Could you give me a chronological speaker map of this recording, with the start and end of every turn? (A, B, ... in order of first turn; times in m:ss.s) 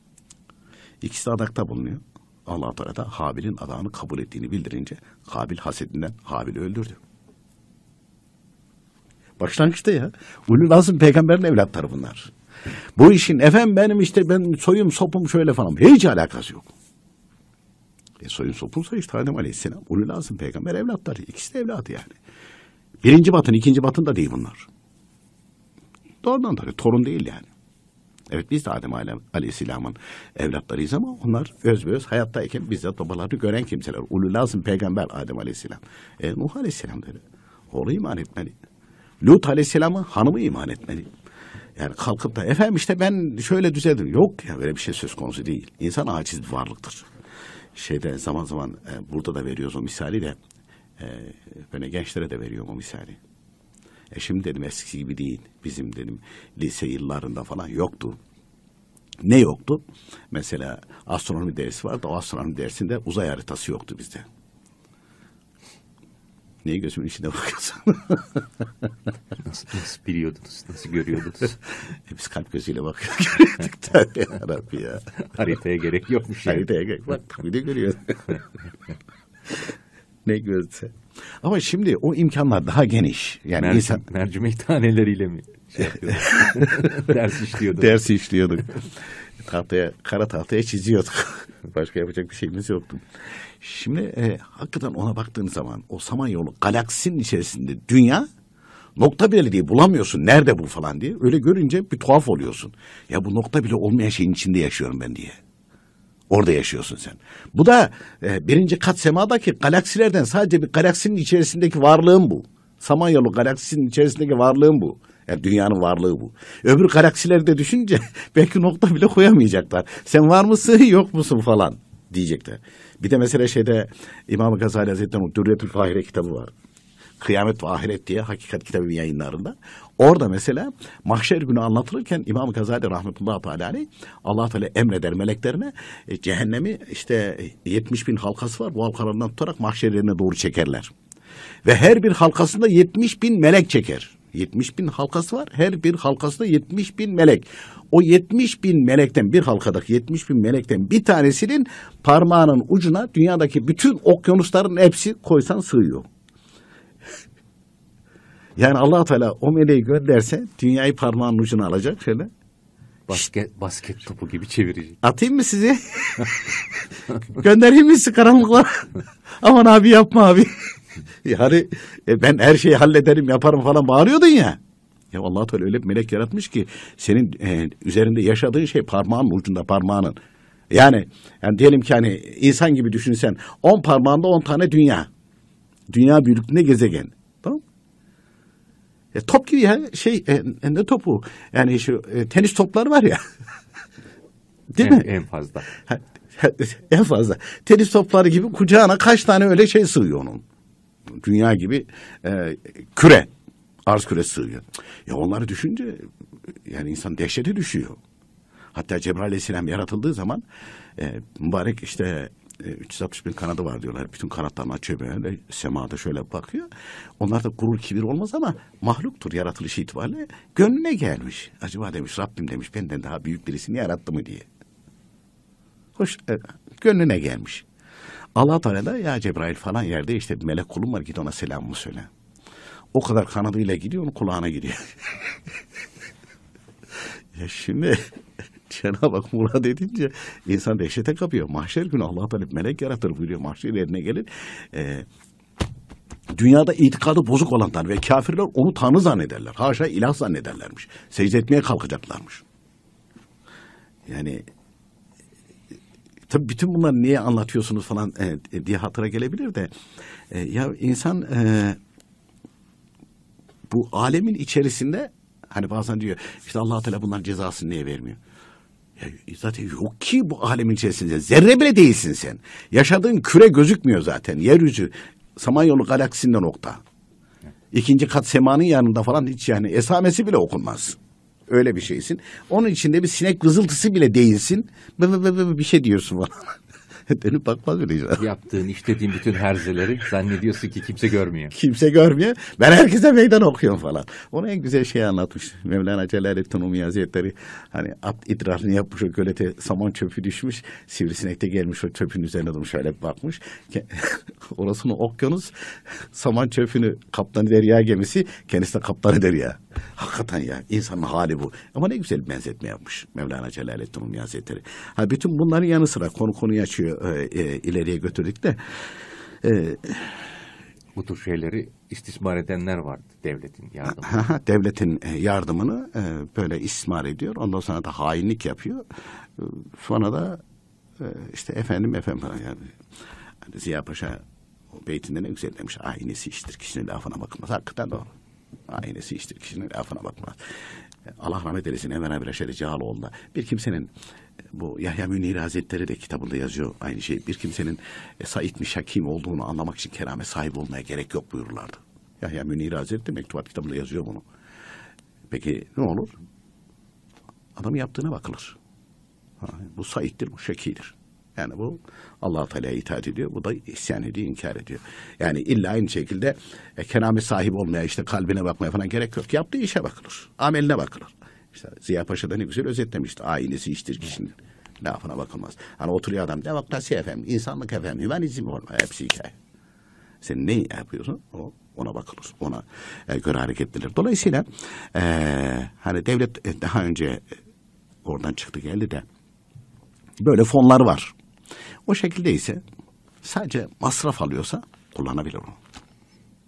0:01.0-0:07.0 A
0:09.4-0:12.3 A
0:13.0-0:16.7 A
0:18.2-0:22.2 A
0:23.0-0:24.7 A
0:26.2-0:27.5 A
0:28.3-0:38.6 A
0:39.2-0:41.1 A
0:41.8-0:47.1 A
0:47.7-0:50.4 A
0:51.0-0:53.2 A
0:54.1-0:58.2 A
0:59.2-1:04.2 A
1:06.6-1:08.6 A
1:09.4-1:11.6 B
1:11.8-1:15.1 A
1:15.2-1:16.7 B
1:16.4-1:18.4 A
1:20.2-1:24.0 A
1:23.6-1:28.0 B
1:27.7-1:28.8 A
1:29.4-1:33.0 A
1:33.6-1:38.3 A
1:39.0-1:45.4 A
1:46.3-2:06.5 A
2:07.2-2:20.9 A
2:21.6-2:36.0 A
2:38.6-2:42.3 A
2:43.1-2:45.0 B
2:45.0-2:46.6 A
2:47.3-2:50.5 A
2:51.2-2:54.6 A
2:55.1-3:00.2 A
3:00.7-3:05.1 A
3:05.9-3:07.6 A
3:09.1-3:13.2 A
3:14.7-3:15.0 A
3:14.8-3:15.7 B
3:15.8-3:20.4 A
3:21.2-3:23.3 A
3:23.8-3:26.1 A
3:26.6-3:28.0 A
3:28.7-3:30.4 A
3:31.0-3:36.7 A
3:37.2-3:44.5 A
3:46.0-3:47.6 A
3:48.4-3:52.1 A
3:52.9-3:55.3 A
3:57.3-3:58.0 A
3:58.7-4:05.0 A
4:06.3-4:12.4 A
4:14.1-4:14.4 A
4:16.3-4:19.7 A
4:20.3-4:21.8 A
4:23.7-4:28.2 A
4:29.0-4:36.8 A
4:37.7-4:41.0 A
4:41.5-4:48.2 A
4:48.2-4:51.5 B
4:51.5-5:18.6 A
5:19.4-5:20.2 A
5:21.0-5:24.2 B
5:23.9-5:30.4 A
5:31.0-5:32.7 A
5:33.4-5:34.2 A
5:34.7-5:38.1 A
5:38.7-5:40.4 A
5:41.1-5:43.9 A
5:44.5-5:54.2 A
5:55.3-5:56.1 A
5:57.6-5:58.6 A
5:59.4-6:19.3 A
6:20.2-6:27.2 A
6:28.0-6:29.0 A
6:30.2-6:31.1 A
6:31.8-6:32.6 A
6:33.2-6:35.6 A